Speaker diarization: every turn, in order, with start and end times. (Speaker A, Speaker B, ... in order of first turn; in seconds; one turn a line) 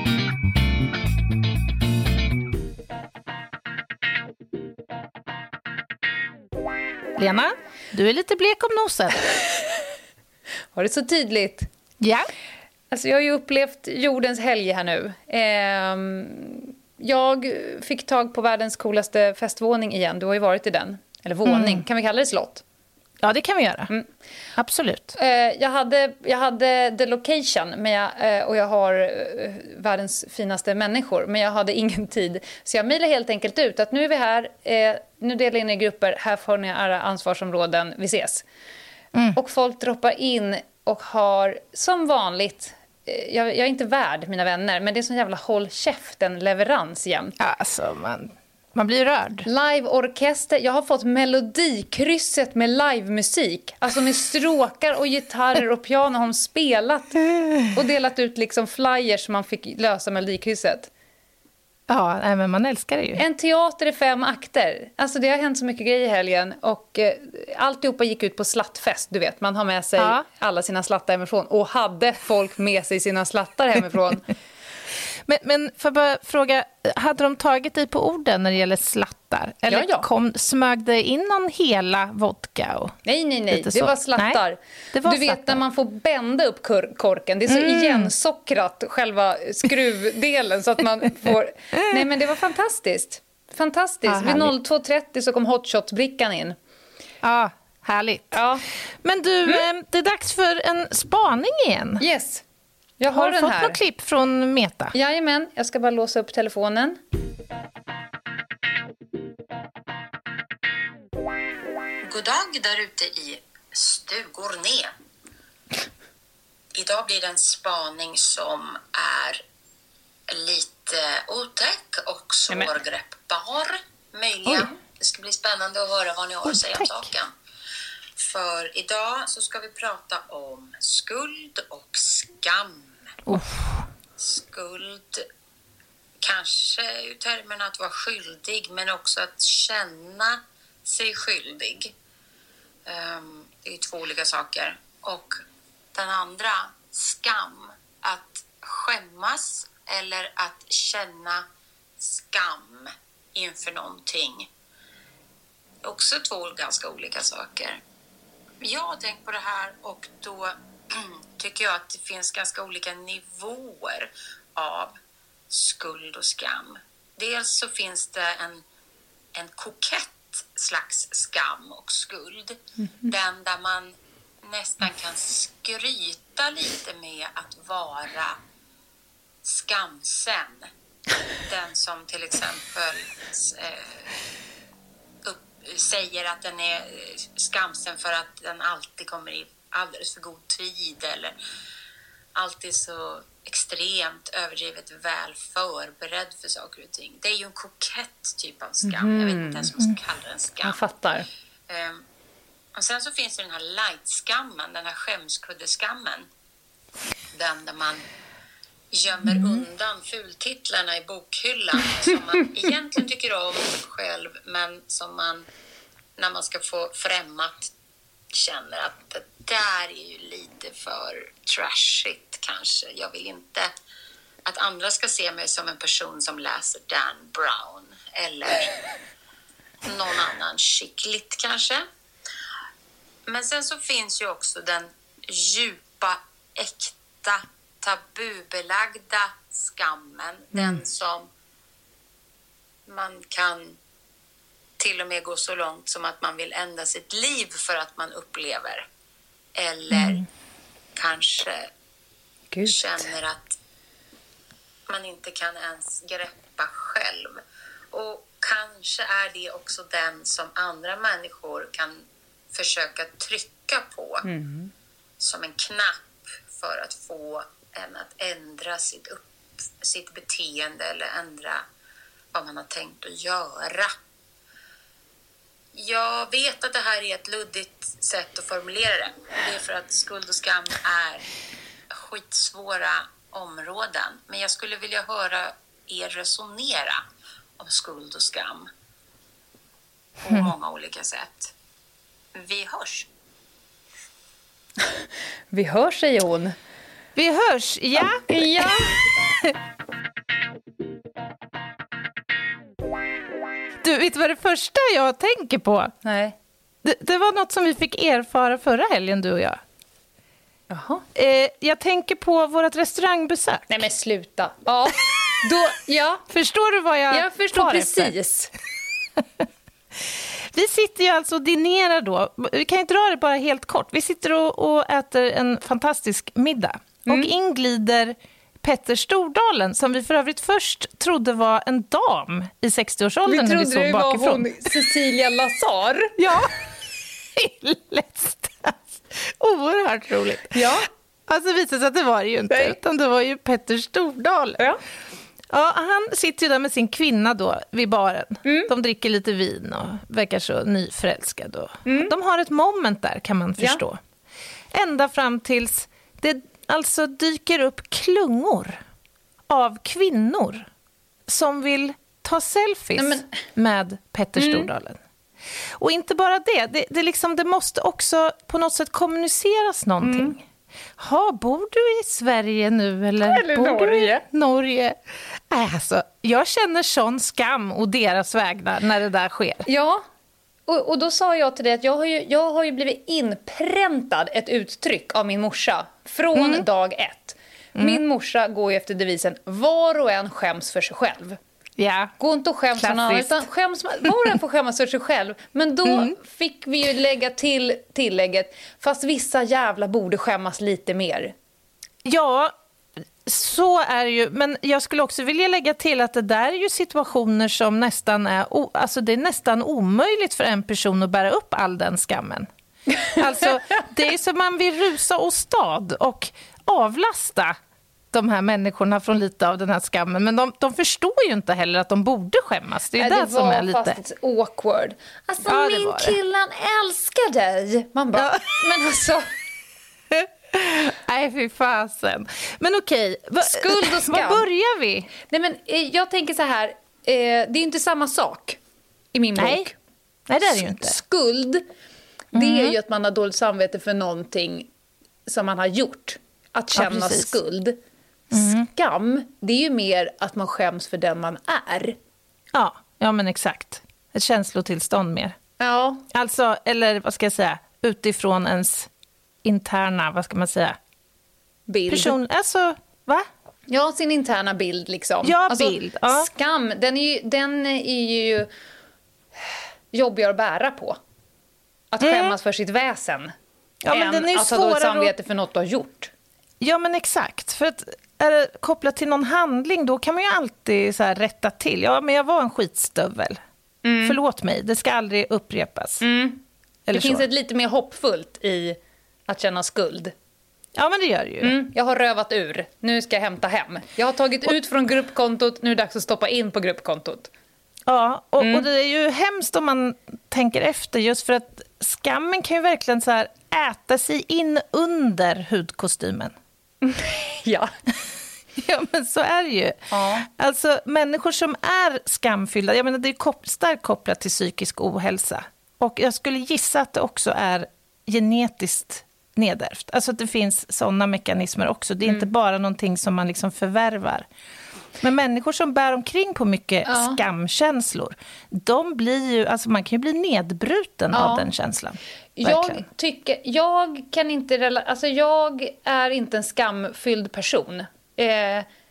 Speaker A: 7.2-9.2
Speaker B: 9.4-9.6
Speaker B: 10.7-11.7
Speaker A: 12.0-12.3
Speaker B: 12.9-22.6
Speaker A: 21.4-21.8
Speaker A: 23.2-23.9
Speaker A: 24.6-25.1
Speaker B: 25.1-38.4
Speaker B: 39.4-47.4
Speaker A: 47.4-49.5
Speaker B: 49.4-57.2
Speaker A: 57.3-57.7
Speaker B: 57.7-60.9
Speaker A: 61.9-63.2
Speaker B: 63.1-74.2
Speaker A: 70.0-70.2
Speaker A: 75.3-83.0
Speaker B: 79.7-80.1
Speaker B: 83.0-96.6
Speaker A: 83.5-84.4
Speaker A: 84.9-85.6
Speaker A: 87.5-88.1
Speaker A: 91.7-92.0
Speaker A: 94.0-94.5
Speaker A: 97.2-98.4
Speaker B: 98.3-98.6
Speaker A: 99.0-102.0
Speaker B: 102.0-102.4
Speaker B: 103.0-103.8
Speaker A: 103.1-104.9
Speaker B: 104.9-107.0
Speaker C: 112.0-114.9
Speaker C: 116.7-119.4
Speaker C: 120.3-127.3
Speaker A: 126.5-127.0
Speaker C: 128.2-132.9
Speaker A: 133.3-133.8
Speaker C: 134.2-135.2
Speaker C: 136.2-141.9
Speaker C: 142.8-145.4
Speaker C: 145.9-151.4
Speaker C: 152.0-154.5
Speaker C: 155.8-157.8
Speaker C: 158.6-164.9
Speaker C: 165.5-168.6
Speaker C: 169.3-173.9
Speaker C: 174.4-178.4
Speaker C: 179.4-180.7
Speaker C: 181.4-184.1
Speaker C: 185.2-191.3
Speaker C: 192.3-200.8
Speaker B: 198.8-199.7
Speaker B: 200.6-201.3
Speaker C: 201.7-202.0
Speaker C: 202.7-206.2
Speaker C: 207.3-208.0
Speaker C: 208.9-215.4
Speaker C: 216.2-217.7
Speaker C: 218.3-223.7
Speaker C: 224.4-228.8
Speaker C: 229.8-231.8
Speaker C: 233.3-241.3
Speaker B: 240.5-240.8
Speaker C: 242.9-243.8
Speaker C: 244.8-248.8
Speaker C: 249.6-250.2
Speaker C: 250.9-251.7
Speaker B: 252.5-253.1
Speaker C: 252.7-253.6
Speaker C: 254.9-257.4
Speaker C: 257.9-264.3
Speaker B: 264.2-264.7
Speaker C: 265.2-271.6
Speaker C: 272.3-273.9
Speaker C: 275.7-281.3
Speaker C: 281.9-287.0
Speaker C: 287.6-288.7
Speaker C: 290.2-291.5
Speaker C: 292.3-293.1
Speaker B: 294.8-296.6
Speaker A: 297.1-298.9
Speaker B: 298.0-299.0
Speaker A: 303.8-305.9
Speaker B: 306.0-306.4
Speaker A: 306.8-309.6
Speaker B: 310.7-311.0
Speaker A: 311.1-313.8
Speaker B: 313.7-316.2
Speaker A: 316.3-318.1
Speaker B: 317.1-318.5
Speaker A: 320.5-334.5
Speaker B: 327.1-327.3
Speaker B: 333.3-336.2
Speaker A: 336.2-336.5
Speaker A: 337.4-340.6
Speaker B: 340.5-340.9
Speaker A: 341.3-344.6
Speaker B: 342.5-342.8
Speaker A: 345.5-354.0
Speaker B: 348.4-348.7
Speaker B: 351.9-352.1
Speaker A: 354.7-358.8
Speaker A: 359.5-360.7
Speaker A: 361.3-365.0
Speaker B: 362.9-363.3
Speaker B: 364.4-364.7
Speaker A: 365.8-370.4
Speaker B: 370.0-370.3
Speaker A: 371.0-374.9
Speaker B: 373.2-374.2
Speaker A: 375.5-379.6
Speaker B: 379.6-380.0
Speaker B: 380.7-391.4
Speaker A: 386.3-386.6
Speaker A: 387.7-388.0
Speaker A: 391.8-392.1
Speaker B: 392.2-401.3
Speaker A: 392.8-393.4
Speaker A: 395.8-396.1
Speaker A: 402.0-402.5
Speaker A: 403.2-412.5
Speaker A: 413.0-417.6
Speaker A: 418.1-424.0
Speaker B: 423.0-429.3
Speaker A: 425.4-426.1
Speaker A: 428.1-428.6
Speaker A: 430.1-435.1
Speaker B: 433.4-434.5
Speaker B: 435.2-438.6
Speaker B: 439.1-439.7
Speaker A: 439.4-439.7
Speaker A: 440.3-441.0
Speaker B: 440.5-441.6
Speaker B: 442.3-444.7
Speaker A: 442.3-442.7
Speaker B: 445.2-447.8
Speaker A: 446.8-447.4
Speaker B: 448.3-452.0
Speaker A: 448.3-448.7
Speaker A: 452.5-455.4
Speaker B: 455.6-456.0
Speaker A: 456.1-458.9
Speaker A: 459.4-460.8
Speaker B: 461.7-462.1
Speaker A: 461.9-463.3
Speaker B: 463.7-468.5
Speaker A: 465.2-466.3
Speaker B: 469.4-471.0
Speaker B: 471.9-473.3
Speaker A: 472.0-472.3
Speaker A: 473.8-475.1
Speaker B: 473.9-476.1
Speaker A: 476.6-483.4
Speaker B: 483.8-484.2
Speaker A: 484.0-486.0
Speaker B: 486.0-490.1
Speaker A: 486.9-487.2
Speaker A: 490.8-491.6
Speaker B: 491.4-497.3
Speaker A: 497.9-506.3
Speaker B: 498.4-498.6
Speaker B: 506.8-507.7
Speaker A: 508.6-524.2
Speaker B: 509.9-510.2
Speaker A: 525.0-532.9
Speaker B: 526.9-527.2
Speaker B: 531.1-531.5
Speaker B: 532.4-538.7